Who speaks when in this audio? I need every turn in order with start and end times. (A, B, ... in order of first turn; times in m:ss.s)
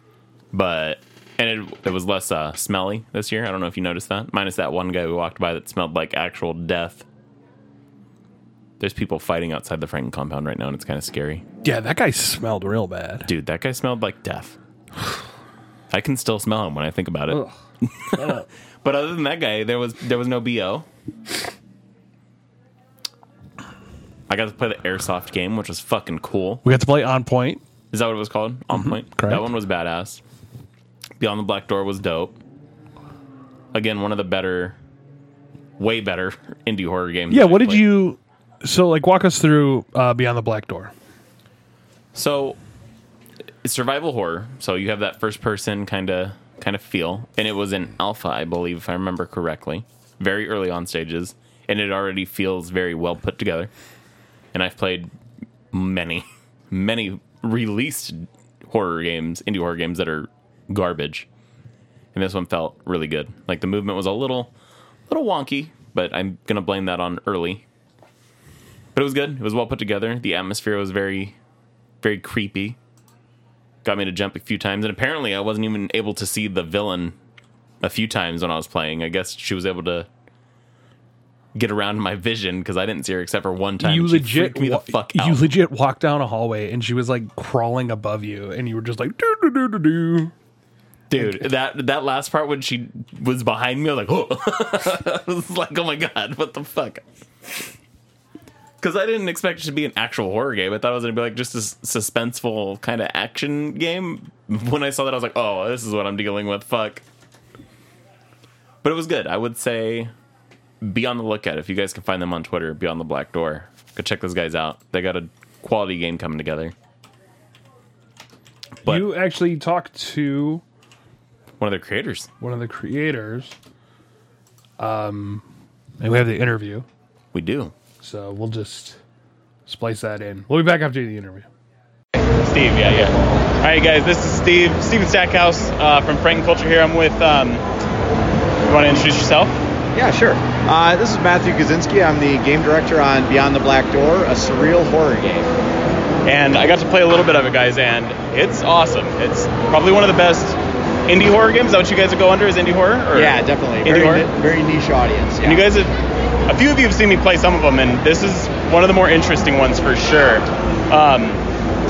0:00.5-0:07.0 A
0:08.8-0:11.4 A
0:11.6-0:13.3 B
0:13.2-0:14.6 A
0:15.9-0:20.8 A
0:17.3-0:17.5 B
0:18.1-0:18.5 B
0:24.3-0:26.6 A
0:26.6-0:27.6 B
0:27.9-0:30.2 A
0:28.7-0:29.4 B
0:31.2-0:32.4 A
0:33.7-0:34.8 A
0:35.8-0:38.0 A
0:37.3-0:40.9 B
0:42.1-0:42.6 A
0:43.6-0:53.7 A
0:54.5-0:55.1 A
0:55.7-1:01.3 A
1:02.1-1:04.5 A
1:05.1-1:07.6 A
1:08.9-1:11.4 A
1:12.0-1:12.8 A
1:13.8-1:17.2 A
1:17.8-1:20.1 A
1:21.5-1:25.4 A
1:23.8-1:30.3 B
1:31.1-1:37.6 A
1:31.2-1:31.4 B
1:38.8-1:47.0 A
1:48.8-1:50.1 A
1:50.8-1:56.7 A
1:58.8-1:59.1 A
1:58.8-2:00.6 B
2:01.6-2:02.3 A
2:02.4-2:03.6 B
2:04.8-2:05.4 B
2:06.0-2:06.8 B
2:07.3-2:07.7 A
2:08.0-2:09.0 B
2:09.7-2:11.5 B
2:12.4-2:17.6 C
2:18.6-2:19.6 C
2:19.9-2:25.5 D
2:26.2-2:34.3 C
2:33.1-2:35.6 D
2:35.4-2:35.9 C
2:36.5-2:41.4 C